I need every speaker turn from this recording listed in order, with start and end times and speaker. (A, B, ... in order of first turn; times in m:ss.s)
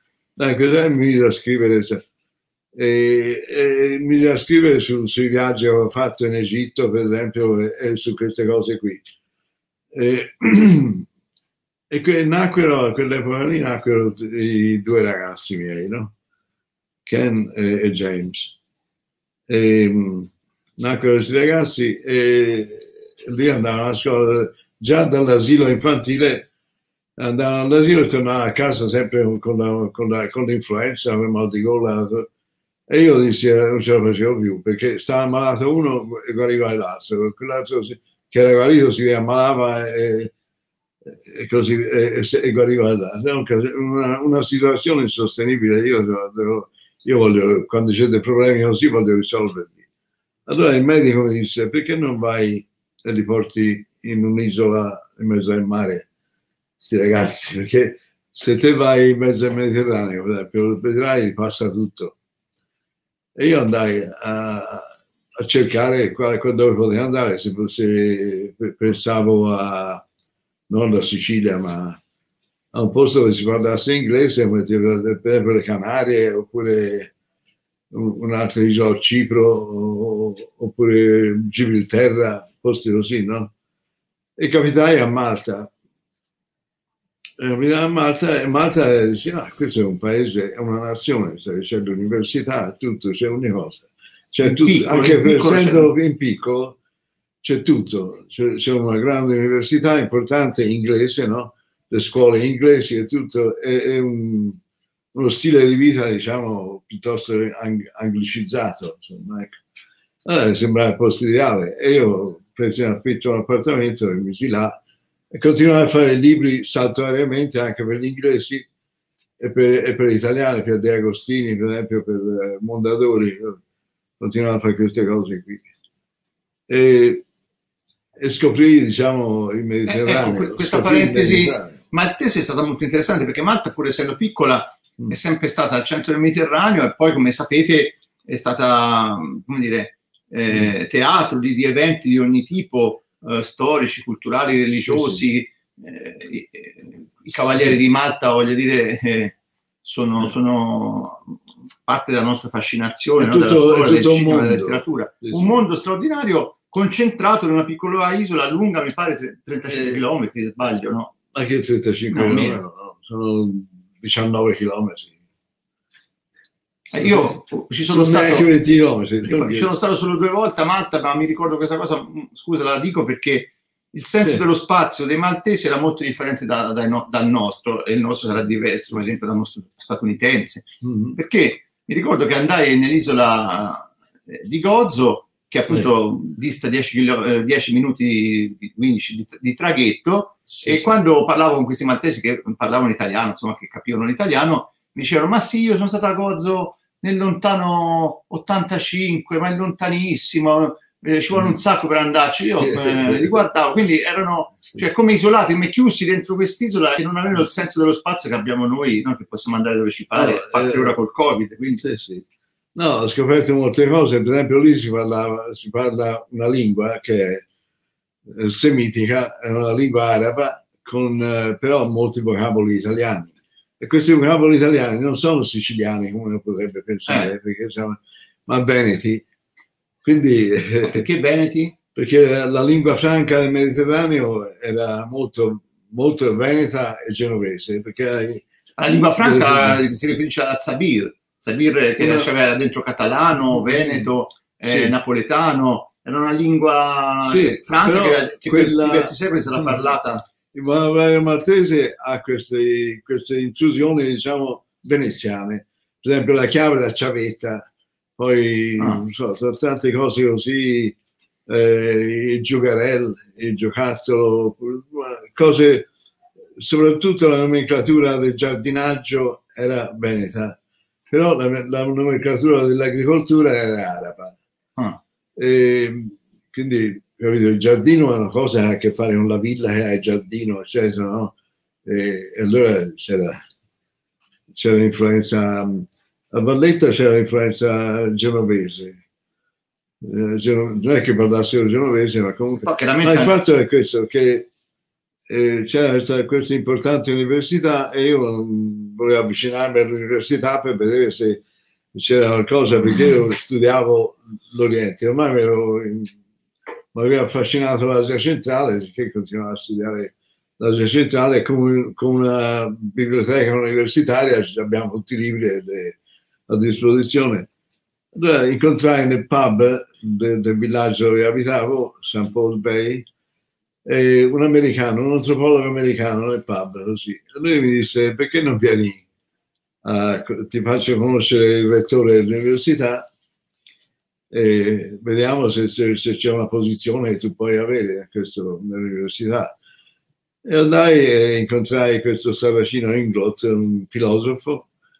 0:00.4-0:02.0 A
0:02.8-0:09.0 A
0:09.9-0:11.1 A
0:11.9-0:16.1 A
0:17.1-0:18.5 A
0:19.5-0:26.5 A
0:27.2-0:32.3 A
0:32.9-0:40.3 A
0:41.1-0:49.8 A
0:50.5-0:56.1 A
0:56.8-1:02.1 A
1:03.4-1:04.9 A
1:05.4-1:10.0 A
1:10.7-1:12.0 A
1:12.7-1:17.1 A
1:17.9-1:23.5 A
1:24.4-1:25.7 A
1:27.4-1:36.8 A
1:34.4-1:35.9 B
1:37.4-1:44.6 A
1:45.1-1:49.6 A
1:50.2-1:54.8 A
1:55.3-1:58.6 A
1:59.4-2:03.6 A
2:04.2-2:05.6 A
2:06.7-2:07.2 A
2:08.2-2:11.8 A
2:09.9-2:31.3 B
2:24.7-2:25.2 A
2:27.4-2:27.8 A
2:31.9-2:41.1 B
2:33.2-2:35.5 A
2:39.7-2:40.0 A
2:41.3-2:45.1 A
2:42.1-2:42.6 B
2:46.9-2:48.5 B
2:47.9-2:49.7 A
2:49.2-3:31.8 B
3:00.8-3:01.2 A
3:10.5-3:10.9 A
3:22.6-3:23.4 A
3:30.1-3:30.9 A
3:31.8-3:37.4 A
3:38.3-3:49.2 A
3:50.0-3:51.0 A
3:50.8-3:51.8 B
3:52.0-3:58.4 A
3:58.8-4:10.2 B
3:59.2-3:59.8 A
4:02.0-4:02.3 A
4:03.5-4:04.1 A
4:04.7-4:04.9 A
4:07.2-4:09.8 A
4:10.5-4:17.7 A
4:18.2-4:21.0 A
4:21.5-4:25.9 A
4:26.6-4:30.6 A
4:31.1-4:34.4 A
4:35.4-4:41.3 A
4:41.9-4:43.4 A
4:44.5-4:49.0 A
4:50.0-4:54.4 A
4:52.6-4:53.3 B
4:55.3-5:01.4 A
5:01.9-5:06.1 A
5:06.9-5:16.0 A
5:16.5-5:17.5 A
5:18.1-5:23.1 A
5:23.9-5:29.0 A
5:29.8-5:33.1 A
5:34.3-5:39.5 A
5:40.4-5:44.7 A